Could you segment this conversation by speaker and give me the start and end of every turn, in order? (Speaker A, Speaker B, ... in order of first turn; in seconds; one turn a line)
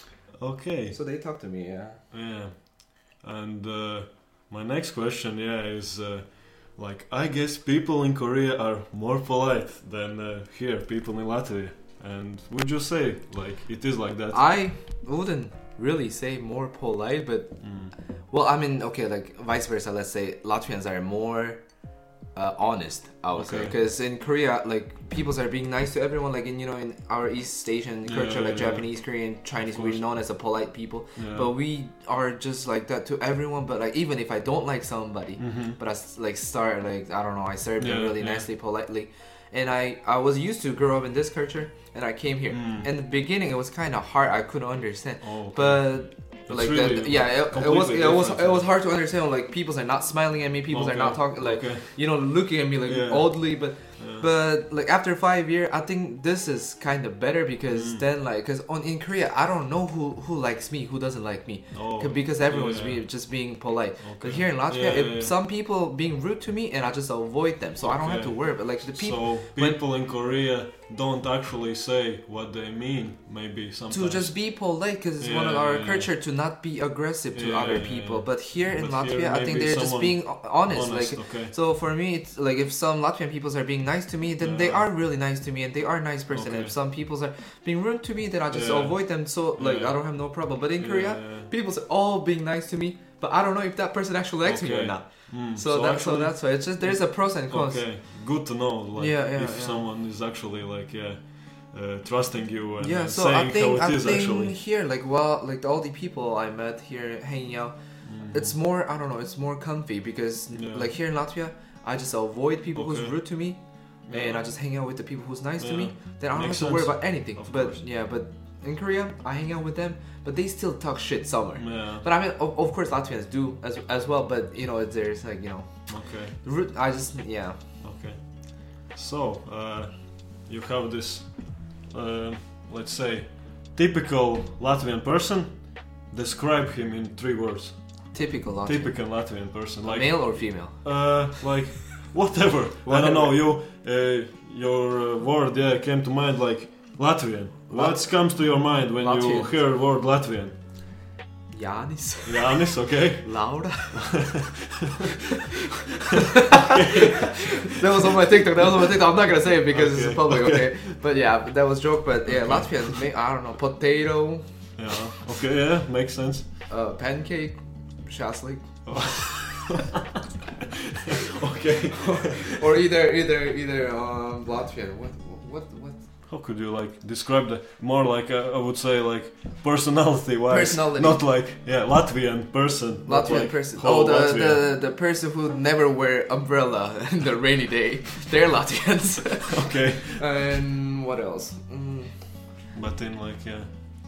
Speaker A: 0.4-1.0
Speaker B: 0.9-2.0
Speaker A: 2.1-14.4
Speaker B: 14.3-17.7
Speaker A: 17.6-17.9
Speaker B: 18.3-21.6
Speaker B: 22.3-69.8
Speaker A: 23.3-23.7
Speaker A: 28.0-28.9
Speaker A: 29.7-30.0
Speaker A: 31.2-31.5
Speaker A: 35.4-35.8
Speaker A: 37.8-38.5
Speaker A: 42.5-42.9
Speaker A: 45.2-48.7
Speaker A: 50.7-51.9
Speaker A: 52.8-54.3
Speaker A: 57.7-58.0
Speaker A: 61.7-63.0
Speaker A: 64.0-65.3
Speaker A: 67.8-74.3
Speaker B: 73.9-97.9
Speaker A: 75.2-76.1
Speaker A: 77.3-81.5
Speaker A: 84.4-84.9
Speaker A: 86.3-86.7
Speaker A: 88.5-90.0
Speaker A: 90.8-91.5
Speaker A: 94.4-104.5
Speaker B: 99.0-99.9
Speaker B: 102.8-107.7
Speaker A: 108.0-108.5
Speaker B: 108.3-127.6
Speaker A: 110.5-110.9
Speaker A: 112.7-113.2
Speaker A: 114.1-114.5
Speaker A: 115.6-117.8
Speaker A: 121.6-122.0
Speaker A: 125.9-126.3
Speaker A: 127.8-150.6
Speaker B: 138.1-141.1
Speaker B: 142.8-143.3
Speaker B: 147.7-148.4
Speaker B: 149.0-149.6
Speaker B: 151.5-154.4
Speaker A: 152.2-154.9
Speaker B: 156.1-164.4
Speaker A: 156.3-158.1
Speaker A: 159.7-160.9
Speaker A: 162.2-163.0
Speaker A: 164.8-166.5
Speaker B: 166.7-169.3
Speaker A: 168.8-169.9
Speaker A: 171.0-172.7
Speaker B: 171.9-176.0
Speaker A: 176.3-184.7
Speaker B: 180.5-181.2
Speaker B: 183.1-192.5
Speaker A: 189.5-190.2
Speaker A: 192.7-193.7